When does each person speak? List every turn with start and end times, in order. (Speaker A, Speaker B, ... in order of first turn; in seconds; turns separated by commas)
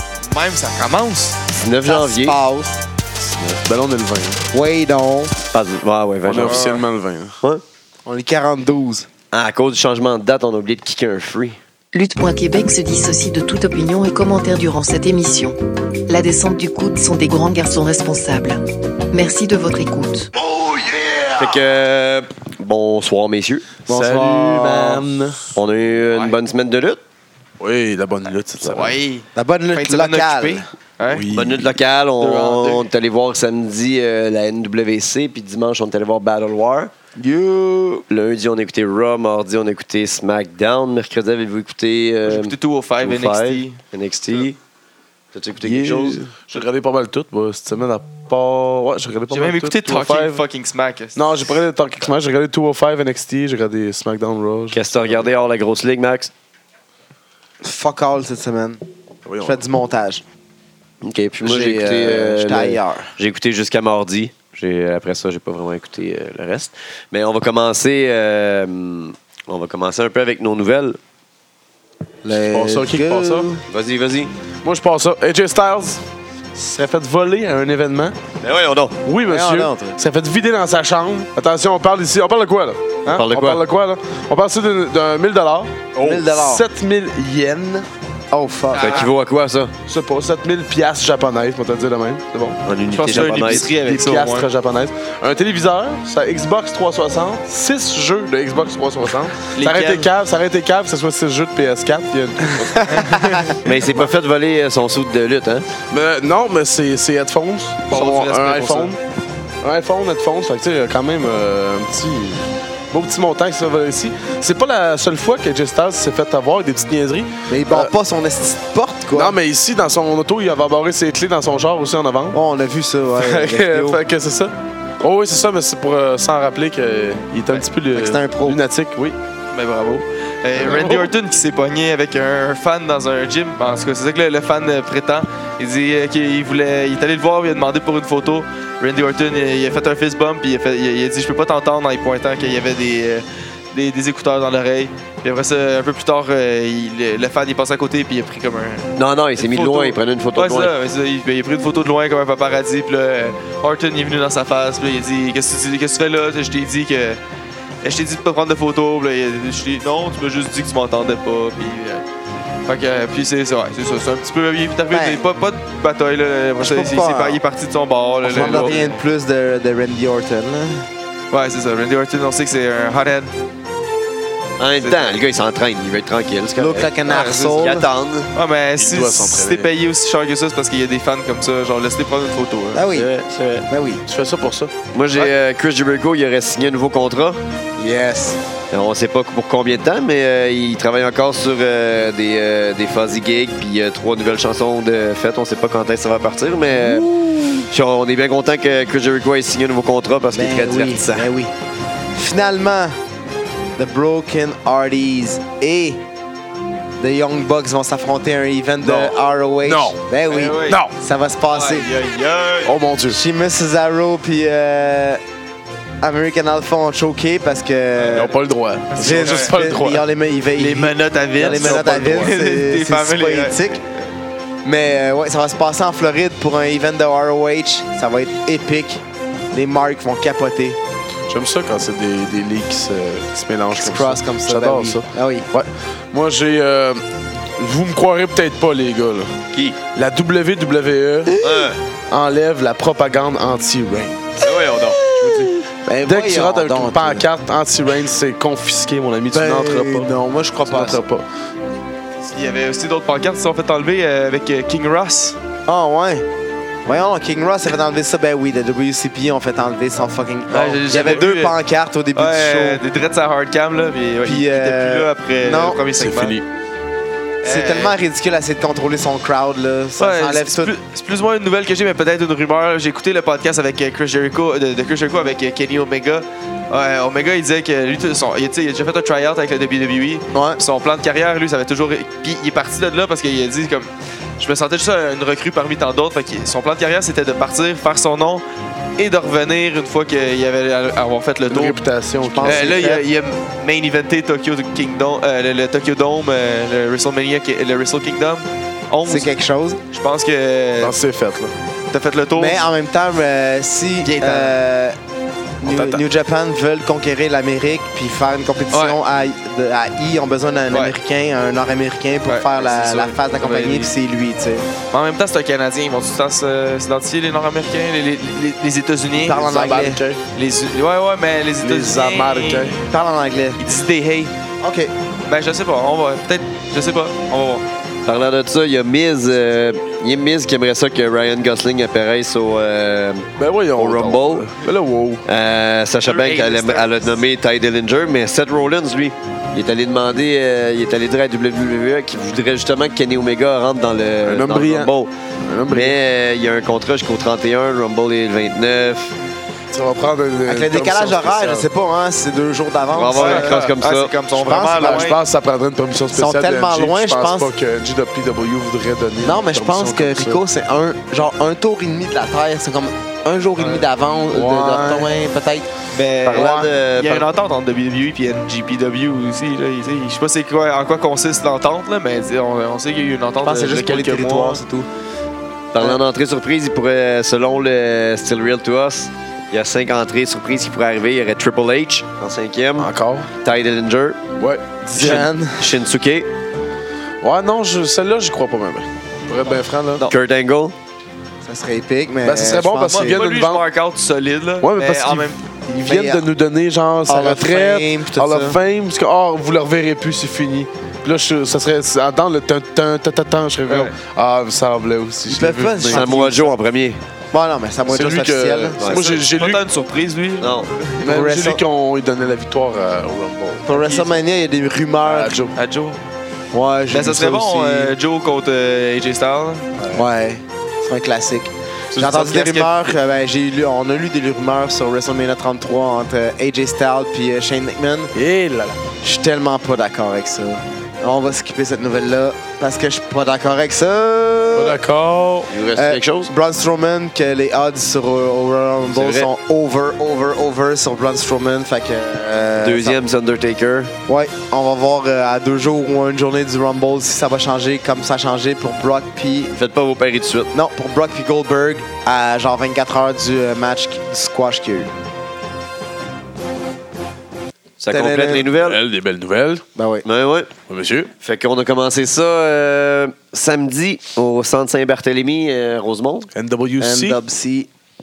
Speaker A: 0.3-1.4, Speaker B: 1.5-2.4, Speaker C: 1.8-2.7, Speaker D: 3.3-4.5, Speaker C: 4.5-5.3, Speaker B: 5.5-6.7, Speaker D: 6.2-7.4, Speaker A: 6.4-6.8, Speaker C: 8.0-9.1, Speaker B: 9.3-11.6, Speaker E: 11.9-15.6, Speaker E: 16.1-20.3, Speaker D: 20.4-21.6, Speaker B: 21.3-23.7, Speaker D: 23.9-25.6, Speaker C: 23.9-25.0, Speaker B: 25.5-27.0, Speaker A: 26.1-26.4, Speaker D: 27.6-28.9, Speaker A: 28.6-31.3, Speaker C: 29.4-30.7, Speaker D: 31.1-31.7, Speaker B: 31.3-36.9, Speaker A: 32.2-32.9, Speaker C: 37.2-38.0, Speaker B: 38.1-44.6, Speaker A: 42.2-43.8, Speaker B: 45.3-46.2, Speaker D: 45.6-50.4, Speaker A: 49.3-51.3, Speaker D: 51.1-54.8, Speaker B: 54.7-56.3, Speaker C: 57.6-58.8, Speaker D: 59.2-59.6, Speaker C: 59.4-60.2, Speaker B: 61.0-71.0, Speaker C: 61.4-63.1, Speaker C: 72.2-73.6, Speaker D: 72.4-73.5, Speaker B: 73.7-74.3, Speaker D: 74.6-76.0, Speaker D: 76.5-78.2, Speaker B: 78.4-79.0, Speaker D: 79.0-87.9, Speaker C: 79.2-80.0, Speaker B: 83.0-83.6, Speaker C: 86.0-86.7, Speaker C: 88.3-89.1, Speaker A: 88.7-89.1, Speaker B: 88.7-89.7, Speaker D: 89.9-92.2, Speaker A: 92.3-94.5, Speaker B: 92.6-93.7, Speaker D: 93.1-103.2, Speaker A: 99.5-100.1, Speaker C: 102.8-103.6, Speaker A: 102.9-103.8, Speaker B: 103.6-105.7, Speaker D: 105.9-109.0, Speaker A: 107.9-109.0, Speaker D: 109.6-117.9, Speaker C: 117.5-119.3, Speaker D: 119.1-122.4, Speaker C: 122.3-124.0, Speaker D: 123.2-129.2, Speaker C: 127.9-128.6, Speaker A: 129.5-157.2, Speaker D: 130.5-131.1, Speaker B: 148.9-150.7, Speaker A: 157.8-162.1, Speaker A: 162.7-169.0, Speaker C: 164.9-165.2, Speaker C: 166.6-167.4, Speaker C: 168.2-170.9, Speaker A: 171.3-173.3, Speaker B: 174.6-178.3, Speaker A: 174.8-175.2, Speaker C: 176.6-177.9, Speaker A: 177.1-177.8, Speaker A: 178.3-182.8, Speaker D: 178.8-179.7, Speaker C: 182.7-183.1, Speaker B: 182.9-183.7, Speaker C: 183.7-184.0, Speaker D: 184.1-184.7, Speaker B: 184.9-187.4, Speaker C: 187.8-188.4, Speaker B: 188.7-197.1, Speaker C: 196.8-197.5, Speaker B: 197.7-201.3, Speaker C: 200.3-201.5, Speaker C: 202.1-202.9, Speaker C: 203.8-206.0, Speaker C: 207.0-211.9, Speaker D: 208.8-210.0, Speaker A: 210.3-210.8, Speaker D: 210.6-210.9, Speaker A: 211.5-212.7, Speaker D: 212.6-213.2, Speaker C: 213.1-215.2, Speaker C: 216.0-218.3, Speaker A: 218.0-218.3, Speaker D: 218.1-220.0, Speaker A: 218.9-219.6, Speaker C: 219.0-223.8, Speaker A: 220.5-223.8, Speaker D: 221.4-222.3, Speaker C: 224.6-230.8, Speaker D: 231.3-237.0, Speaker C: 233.7-235.5, Speaker D: 237.5-239.3, Speaker D: 239.9-241.3, Speaker B: 241.4-241.8, Speaker D: 242.1-244.5, Speaker B: 244.4-245.4, Speaker C: 245.2-247.2, Speaker D: 246.0-251.3, Speaker C: 249.3-251.0, Speaker A: 252.2-255.4, Speaker C: 255.7-256.2, Speaker C: 256.9-262.8, Speaker A: 260.5-261.6, Speaker A: 262.1-266.4, Speaker C: 264.2-265.8, Speaker D: 266.0-266.5, Speaker A: 267.4-268.0, Speaker C: 267.4-270.7, Speaker A: 270.0-288.4, Speaker A: 289.0-291.8, Speaker D: 291.5-292.8, Speaker C: 292.2-293.0, Speaker A: 292.4-299.3, Speaker C: 299.1-299.8, Speaker A: 299.9-300.9, Speaker D: 300.8-301.5, Speaker A: 301.9-302.6, Speaker C: 302.4-305.0, Speaker A: 304.0-304.5, Speaker C: 305.6-314.7, Speaker D: 305.6-306.0, Speaker A: 308.7-309.0, Speaker A: 310.7-310.9, Speaker A: 312.2-313.9, Speaker A: 314.9-319.5, Speaker C: 319.2-320.0, Speaker D: 319.3-320.2, Speaker A: 320.3-322.8, Speaker D: 321.6-322.8, Speaker C: 322.9-323.6, Speaker A: 323.6-324.3, Speaker C: 324.6-324.9, Speaker A: 325.2-327.6, Speaker B: 328.1-334.5, Speaker D: 333.4-335.2, Speaker B: 335.2-345.1, Speaker A: 336.0-337.2, Speaker D: 344.2-346.0, Speaker B: 345.7-349.1, Speaker D: 349.7-351.7, Speaker C: 350.4-353.5, Speaker B: 352.9-354.1, Speaker A: 353.1-355.2, Speaker D: 353.2-353.7, Speaker C: 354.3-355.1, Speaker D: 354.7-360.4, Speaker C: 356.1-357.5, Speaker C: 359.2-365.7, Speaker D: 363.6-365.1, Speaker A: 365.9-374.6, Speaker B: 366.2-367.3, Speaker C: 366.4-366.6, Speaker C: 373.4-374.9, Speaker B: 375.7-382.9, Speaker D: 382.8-383.3, Speaker B: 383.4-384.2, Speaker D: 384.4-385.3, Speaker C: 384.9-385.7, Speaker B: 384.9-386.3, Speaker D: 387.2-390.1, Speaker B: 390.1-390.7, Speaker C: 391.4-393.2, Speaker D: 392.2-393.6, Speaker A: 392.9-395.4, Speaker D: 394.6-406.1, Speaker C: 395.8-396.2, Speaker C: 397.1-398.6, Speaker A: 403.7-403.9, Speaker C: 405.3-406.5, Speaker B: 405.8-407.0, Speaker C: 407.3-408.8, Speaker D: 407.9-409.6, Speaker B: 408.8-409.1, Speaker A: 408.8-411.0, Speaker B: 410.4-410.7, Speaker D: 411.0-413.7, Speaker C: 411.0-411.6, Speaker C: 413.6-415.4, Speaker A: 413.7-414.1, Speaker D: 415.0-415.5, Speaker A: 415.5-416.0, Speaker C: 416.5-417.9, Speaker A: 416.9-419.7, Speaker D: 419.8-420.1, Speaker C: 419.9-428.1, Speaker D: 421.9-422.3, Speaker A: 422.0-422.9, Speaker D: 428.1-428.8, Speaker C: 429.0-434.8, Speaker D: 434.5-435.5, Speaker B: 435.5-436.3, Speaker C: 435.7-443.0, Speaker B: 438.9-439.3, Speaker B: 442.6-443.9, Speaker C: 444.1-449.5, Speaker B: 449.5-450.5, Speaker C: 450.5-454.9, Speaker B: 457.8-458.8, Speaker C: 457.9-458.5, Speaker D: 458.6-459.6, Speaker C: 459.7-460.0, Speaker B: 460.0-460.5, Speaker D: 460.7-461.1, Speaker B: 461.2-466.3, Speaker D: 466.3-467.2, Speaker C: 466.8-467.7